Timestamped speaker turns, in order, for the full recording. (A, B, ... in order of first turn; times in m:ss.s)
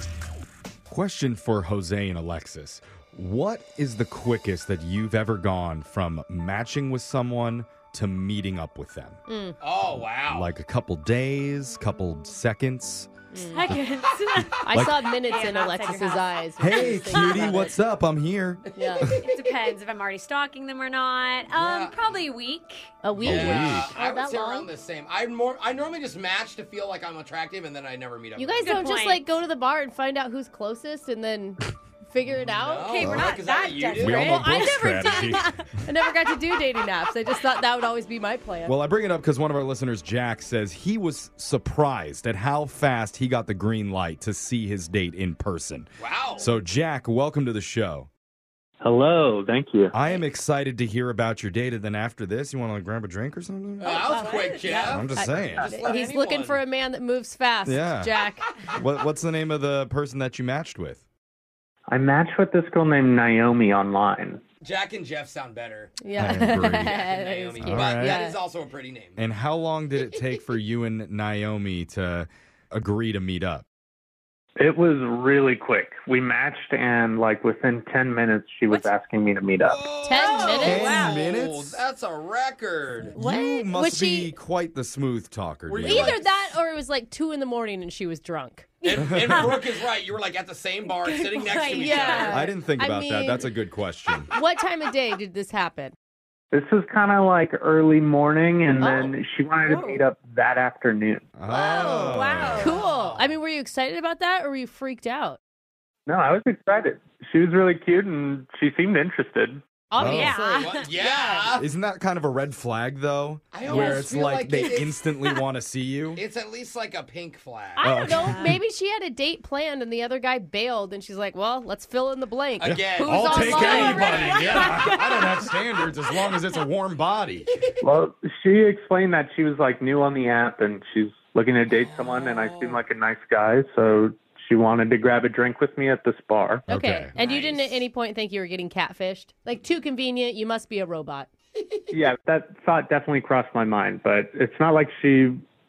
0:00.9-0:09.2 A
0:09.3-0:09.6 B
0:09.6-0:10.5 C
0:10.1-0:13.1 A
0:13.3-0:13.7 B
0:13.4-0:14.7 D
0:14.0-0:14.6 C
0:14.6-0:17.8 B
0:14.7-0:15.1 A
0:15.2-0:16.4 D
0:16.6-0:19.3 A
0:17.0-0:17.7 D
0:18.7-0:19.8 C
0:18.8-0:19.2 B
0:19.2-0:23.0 D
0:21.5-0:22.3 C
0:23.0-0:24.7 B
0:23.2-0:28.8 C
0:23.2-0:23.9 A
0:28.4-0:33.2 B
0:28.6-0:29.2 D
0:32.4-0:34.9 C
0:32.8-0:35.5 D
0:33.0-0:33.4 A
0:33.9-0:35.6 A
0:34.1-0:38.8 B
0:38.6-0:48.1 A
0:46.0-0:46.5 C
0:48.8-0:49.9 E
0:49.9-0:55.7 A
0:53.8-0:56.6 C
0:54.1-0:55.0 D
0:54.1-0:58.5 B
0:57.6-0:58.1 A
0:58.7-1:01.0 A
1:01.9-1:04.4 E
1:04.6-1:09.2 C
1:06.0-1:08.4 B
1:06.2-1:06.9 A
1:07.6-1:08.2 A
1:09.2-1:13.7 A
1:14.6-1:19.9 E
1:19.6-1:23.2 C
1:20.0-1:21.2 B
1:20.2-1:21.3 D
1:20.4-1:21.8 A
1:23.1-1:24.3 B
1:23.2-1:26.2 A
1:25.7-1:26.4 C
1:25.8-1:28.8 B
1:28.8-1:32.4 C
1:28.9-1:29.2 D
1:28.9-1:29.5 A
1:31.0-1:32.5 D
1:31.7-1:33.5 B
1:32.2-1:34.3 A
1:34.3-1:36.0 B
1:36.5-1:41.3 E
1:38.8-1:39.1 B
1:39.6-1:40.0 D
1:41.4-1:42.8 A
1:41.5-1:42.8 D
1:41.5-1:45.4 B
1:42.5-1:43.4 C
1:46.1-1:49.6 E
1:49.9-1:50.7 B
1:50.0-1:50.4 A
1:50.1-1:51.4 D
1:50.6-1:51.7 C
1:51.5-1:56.2 A
1:53.5-1:55.0 C
1:54.6-1:55.4 D
1:56.1-1:58.1 C
1:57.8-2:04.6 B
1:57.8-1:58.6 A
2:02.6-2:05.0 C
2:02.7-2:07.5 A
2:04.4-2:05.5 D
2:07.8-2:16.7 E
2:11.7-2:12.8 C
2:16.7-2:21.3 B
2:16.7-2:17.1 A
2:17.2-2:17.8 C
2:21.6-2:21.9 C
2:21.9-2:25.4 E